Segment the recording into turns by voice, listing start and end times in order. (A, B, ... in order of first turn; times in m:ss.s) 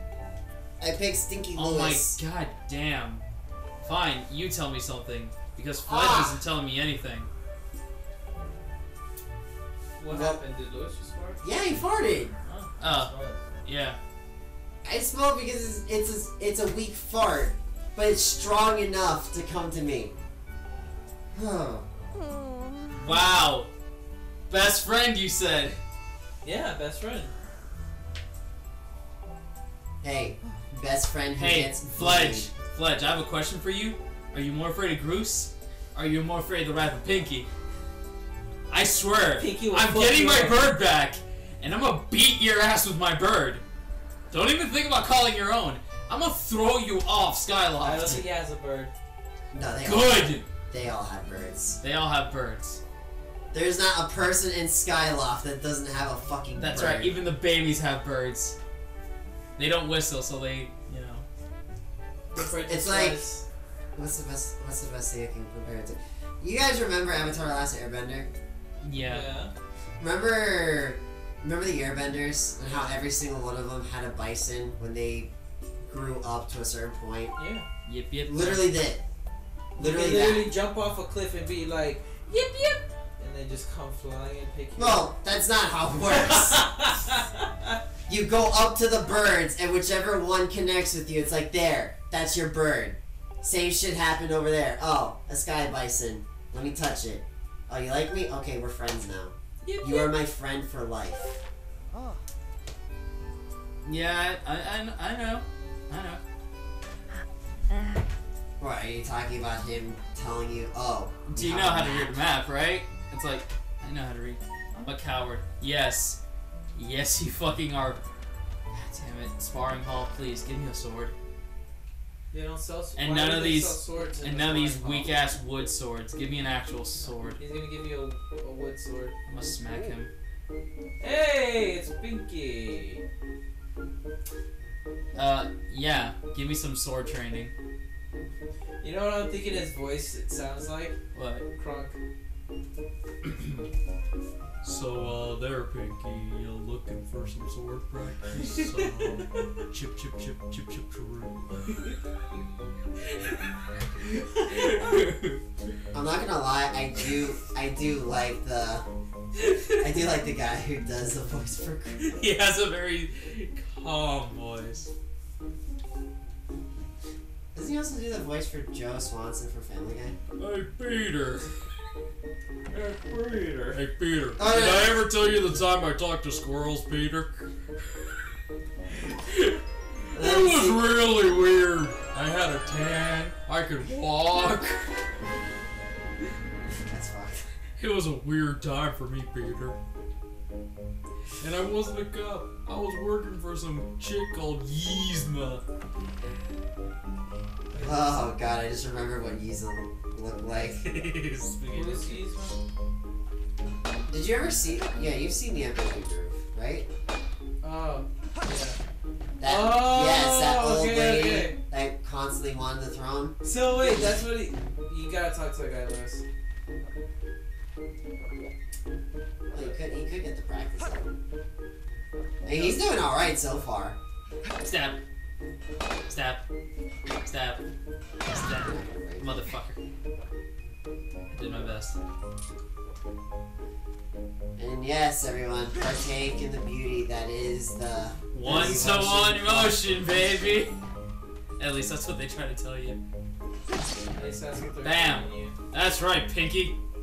0:00.8-0:02.2 A
0:01.6-0:03.2 B
0:03.8-0:07.3 B
0:05.9-0:06.4 A
0:10.0-0:11.4 C
0:10.1-0:10.4 A
0:11.4-0:12.4 A
0:12.4-0:13.4 C
0:12.8-0:13.1 B
0:13.6-0:14.0 B
0:14.8-0:20.2 A
0:21.3-0:21.9 A
0:22.9-0:23.7 B
0:24.5-0:25.8 B
0:26.4-0:27.3 C
0:30.0-0:32.5 A
0:31.4-0:37.5 B
0:38.7-0:43.6 B
0:39.4-0:40.7 C
0:44.3-0:48.3 B
0:47.8-0:48.9 C
0:49.5-0:51.8 A
0:49.8-0:50.4 B
0:51.8-0:52.8 B
0:53.5-0:57.2 A
0:56.6-0:58.6 B
0:59.6-1:01.3 B
1:02.3-1:03.4 C
1:02.4-1:03.2 A
1:04.0-1:08.3 A
1:08.8-1:09.3 B
1:09.0-1:09.5 C
1:10.0-1:15.3 A
1:15.9-1:17.4 A
1:17.4-1:17.7 C
1:17.9-1:18.7 B
1:18.3-1:19.0 A
1:19.8-1:25.1 C
1:19.8-1:20.5 A
1:24.8-1:26.7 A
1:26.2-1:27.8 C
1:28.1-1:41.4 A
1:39.7-1:40.0 C
1:43.8-1:46.2 B
1:48.6-1:52.2 A
1:51.3-1:56.2 B
1:56.8-1:58.0 B
1:58.7-2:01.1 B
2:02.3-2:05.2 C
2:03.0-2:07.4 B
2:07.4-2:09.1 C
2:09.3-2:10.1 B
2:11.0-2:13.0 C
2:15.1-2:17.5 B
2:18.8-2:21.0 C
2:21.1-2:21.5 B
2:21.6-2:22.0 C
2:24.6-2:31.9 B
2:28.4-2:29.2 C
2:33.1-2:35.4 B
2:35.9-2:38.9 A
2:39.4-2:39.8 B
2:39.8-2:42.2 A
2:42.1-2:44.9 B
2:47.5-2:50.2 A
2:50.4-2:51.5 B
2:52.7-2:53.8 C
2:53.7-2:58.1 B
2:54.4-2:55.0 A
2:59.3-3:05.1 B
3:00.2-3:00.9 A
3:06.9-3:07.5 A
3:07.8-3:09.8 B
3:11.4-3:15.6 B
3:17.7-3:18.2 C
3:17.7-3:20.8 A
3:20.6-3:22.2 B
3:21.7-3:22.6 C
3:24.1-3:26.9 A
3:27.6-3:28.8 C
3:29.4-3:33.4 A
3:29.4-3:31.6 C
3:33.4-3:36.2 C
3:39.5-3:41.1 A
3:42.4-3:44.0 A
3:42.5-3:42.8 C
3:44.6-3:45.0 B
3:46.1-3:46.4 B
3:47.2-3:47.6 B
3:48.3-3:49.8 B
3:48.5-3:49.4 A
3:51.3-3:52.0 B
3:54.6-3:59.8 A
3:58.3-4:00.7 B
3:58.5-3:58.9 C
4:01.6-4:03.0 B
4:04.1-4:05.6 C
4:04.8-4:06.8 B